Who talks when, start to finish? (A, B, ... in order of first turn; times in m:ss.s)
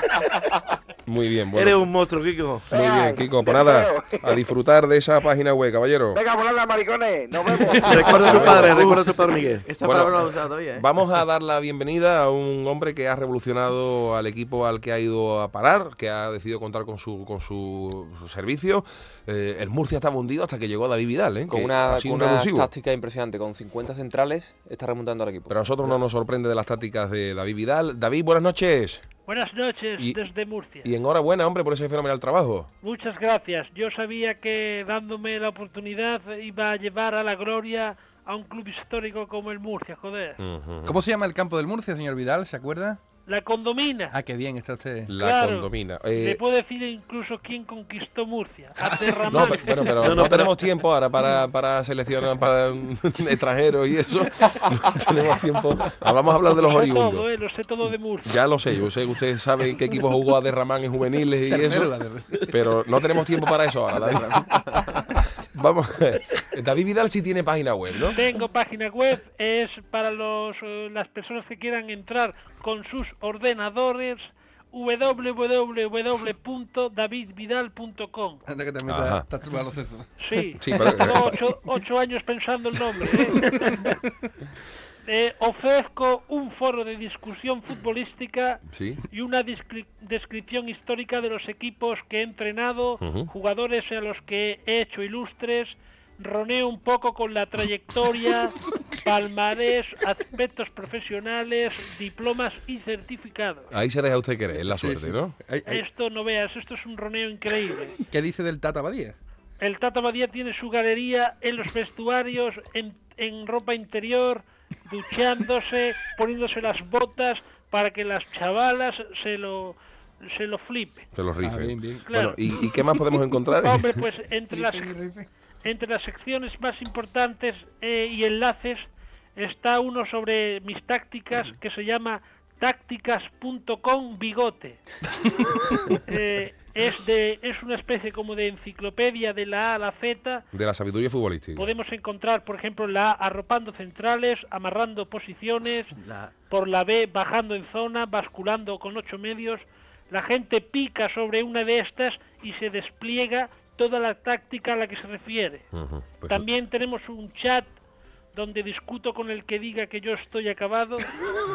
0:01.0-0:01.9 A
0:01.5-0:02.6 B
0:02.7-0:06.2 A
0:02.7-0:04.4 C
0:06.1-0:08.6 C
0:07.8-0:09.7 B
0:08.1-0:09.0 A
0:08.1-0:09.1 D
0:09.6-0:10.9 D
0:09.8-0:22.7 A
0:21.5-0:25.6 E
0:25.5-0:29.0 A
0:29.3-0:30.9 F
0:30.8-0:32.7 A
0:32.8-0:40.4 F
0:40.4-0:41.0 A
0:40.8-0:43.0 G
0:43.3-0:44.2 F
0:44.1-0:45.1 G
0:45.1-0:46.4 A
0:45.2-0:49.9 F
0:48.8-0:50.4 G
0:49.3-0:57.3 A
0:50.1-0:50.5 B
0:56.5-0:58.3 F
0:58.2-1:01.9 A
1:01.5-1:02.6 G
1:02.5-1:08.2 A
1:04.0-1:04.8 D
1:08.2-1:18.4 F
1:18.5-1:20.1 G
1:18.9-1:19.2 A
1:20.2-1:23.9 F
1:20.6-1:21.4 A
1:23.0-1:23.9 G
1:25.0-1:43.7 F
1:28.7-1:29.0 A
1:33.0-1:33.3 A
1:43.7-1:45.4 A
1:44.6-1:45.8 G
1:45.6-1:47.9 F
1:48.1-1:49.1 G
1:49.6-2:01.1 F
2:01.1-2:03.8 A
2:01.4-2:02.1 G
2:02.1-2:02.4 F
2:03.6-2:05.0 F
2:04.5-2:05.2 G
2:05.6-2:14.8 F
2:16.0-2:20.4 F
2:20.5-2:21.7 A
2:21.6-2:25.9 F
2:25.9-2:26.3 D
2:26.5-2:35.7 F
2:35.7-2:36.4 A
2:36.2-2:37.7 F
2:38.3-2:41.1 F